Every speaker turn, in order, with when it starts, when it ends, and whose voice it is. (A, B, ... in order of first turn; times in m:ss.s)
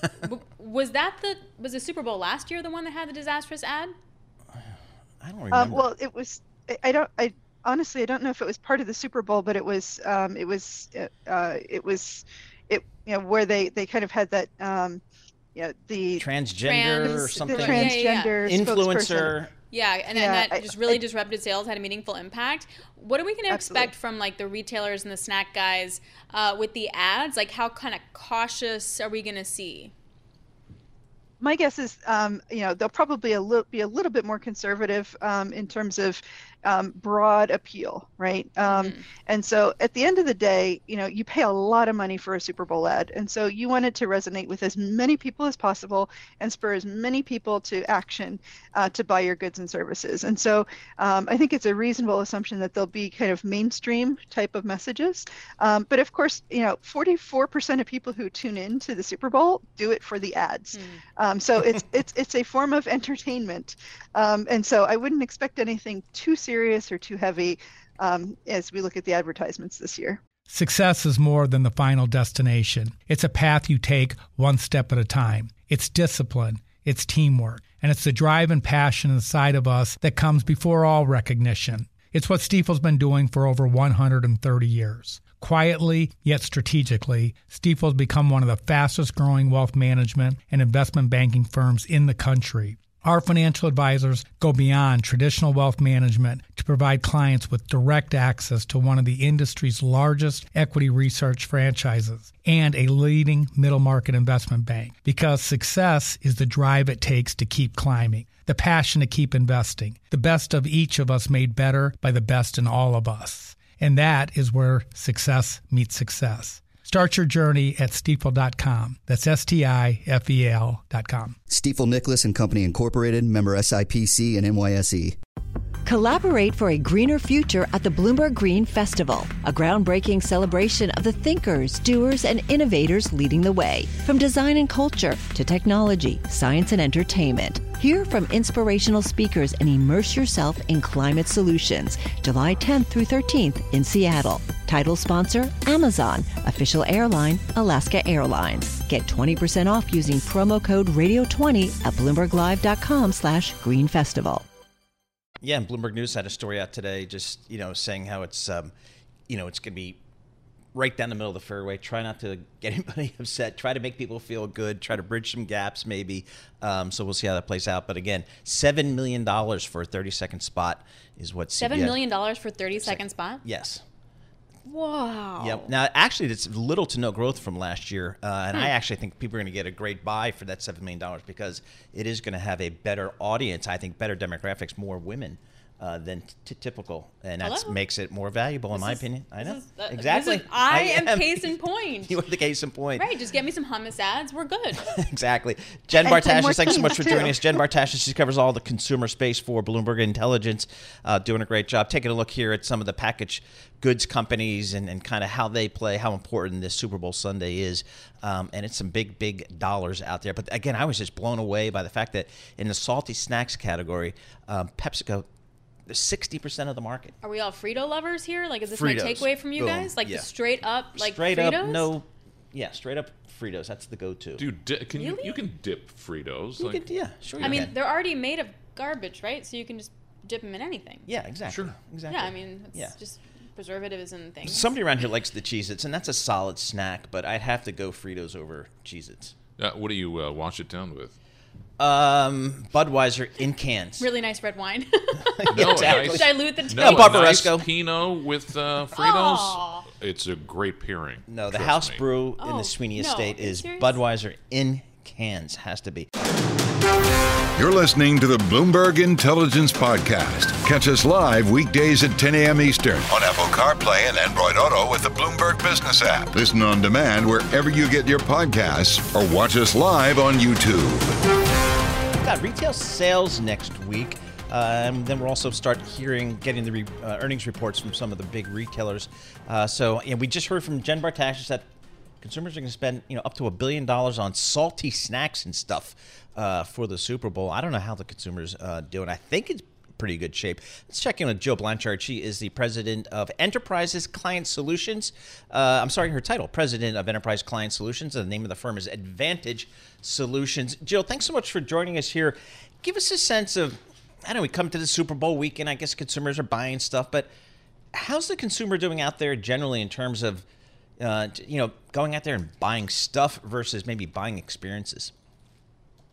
0:00.2-0:03.9 A
0:05.2-0:05.9 B
0:05.5-0:15.0 C
0:15.6-0:16.2 C
0:16.2-0:19.5 B
0:16.7-0:18.3 A
0:17.0-0:19.4 C
0:19.7-0:29.9 A
0:20.1-0:21.0 C
0:23.5-0:23.9 C
0:31.4-1:10.2 C
0:38.6-0:39.1 A
1:00.7-1:01.0 A
1:10.5-2:01.4 D
2:01.5-2:05.2 E
2:05.8-2:34.5 F
2:35.4-2:38.7 B
2:39.3-2:40.0 B
2:40.7-2:52.0 B
2:51.6-2:53.4 A
2:52.8-2:53.8 B
2:54.7-2:55.7 A
2:55.4-3:11.6 B
3:07.4-3:07.8 A
3:08.7-3:12.2 A
3:12.1-3:13.1 B
3:13.0-3:14.9 A
3:14.8-3:35.3 B
3:15.9-3:17.6 C
3:16.7-3:17.3 A
3:35.9-3:37.2 B
3:37.2-3:41.9 A
3:38.7-3:40.3 B
3:41.0-3:44.4 B
3:44.4-3:47.7 G
3:45.0-3:45.4 A
3:46.6-3:47.7 B
3:47.4-3:51.1 A
3:51.1-3:53.0 B
3:51.5-3:51.8 G
3:52.1-3:54.7 A
3:54.5-3:59.4 B
3:59.6-4:01.1 G
4:01.8-4:04.1 B
4:04.0-4:07.4 A
4:05.4-4:07.7 B
4:05.5-4:12.0 G
4:08.9-4:09.9 A
4:11.3-4:16.1 B
4:12.4-4:14.0 A
4:17.6-4:31.1 H
4:32.2-4:41.7 B
4:42.2-5:07.3 B
5:07.9-5:10.4 B
5:11.0-5:15.1 B